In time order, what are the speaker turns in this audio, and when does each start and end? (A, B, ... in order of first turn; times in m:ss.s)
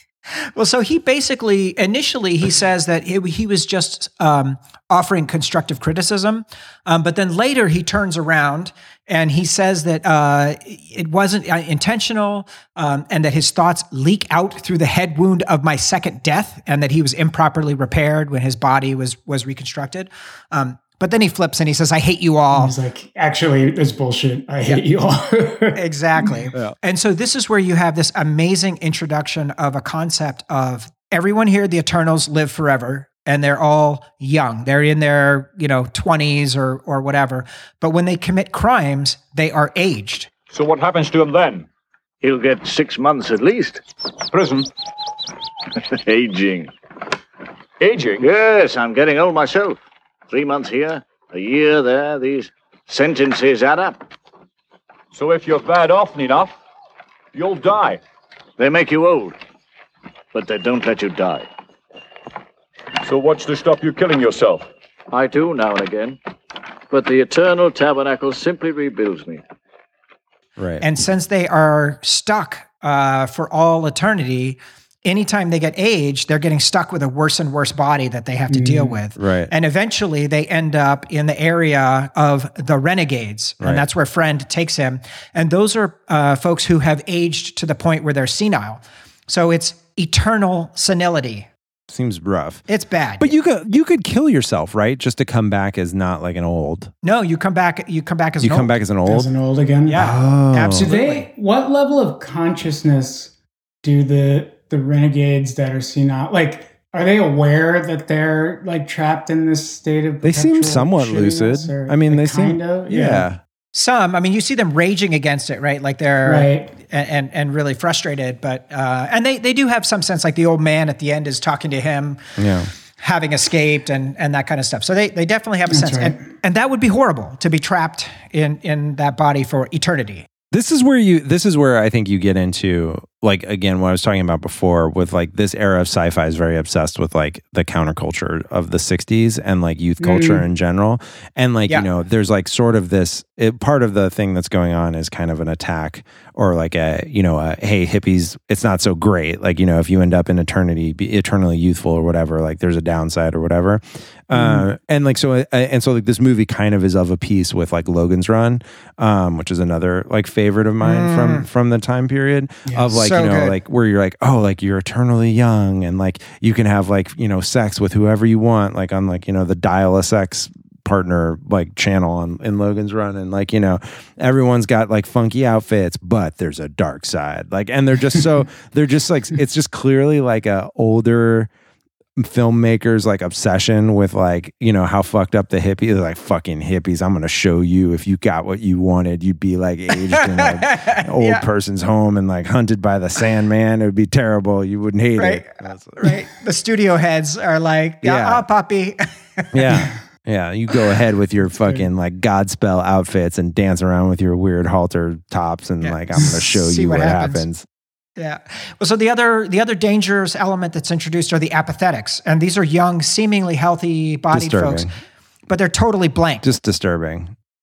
0:00.5-0:22.7 A
0:22.5-0:26.3 B
0:25.7-0:40.3 A
0:40.5-0:41.7 C
0:42.2-0:43.8 D
0:44.3-0:44.7 C
0:45.8-0:46.7 D
0:47.8-0:48.2 C
0:48.2-0:54.0 D
0:55.1-0:56.5 C
0:57.3-0:58.0 C
0:58.6-0:59.4 D
1:00.3-1:01.5 D
1:03.0-1:04.7 C
1:05.1-1:06.2 D
1:06.9-1:09.4 D
1:10.6-1:10.8 E
1:10.8-1:31.5 A
1:18.5-1:19.0 B
1:19.2-1:19.5 E
1:31.9-1:32.6 E
1:32.7-1:33.3 A
1:33.2-1:36.9 E
1:37.0-1:38.7 A
1:38.4-1:39.3 E
1:39.1-1:40.0 B
1:39.9-1:41.3 A
1:39.9-1:40.9 E
1:40.7-1:53.3 B
1:50.2-1:53.4 E
1:53.7-2:02.2 A
1:56.2-1:56.7 B
2:02.4-2:02.7 E
2:03.0-2:10.3 A
2:05.7-2:06.2 B
2:10.5-3:01.5 E
2:20.0-2:20.4 B
2:34.3-2:34.6 B
2:40.8-2:41.4 A
2:42.6-2:43.0 B
2:42.9-2:43.6 A
3:02.2-3:16.1 E
3:10.1-3:11.4 A
3:15.2-3:19.7 A
3:18.0-3:18.4 E
3:19.5-3:27.6 E
3:21.5-3:21.8 B
3:25.8-3:27.4 A
3:28.2-3:34.9 A
3:34.3-3:34.9 E
3:35.5-3:36.4 A
3:36.4-3:37.3 E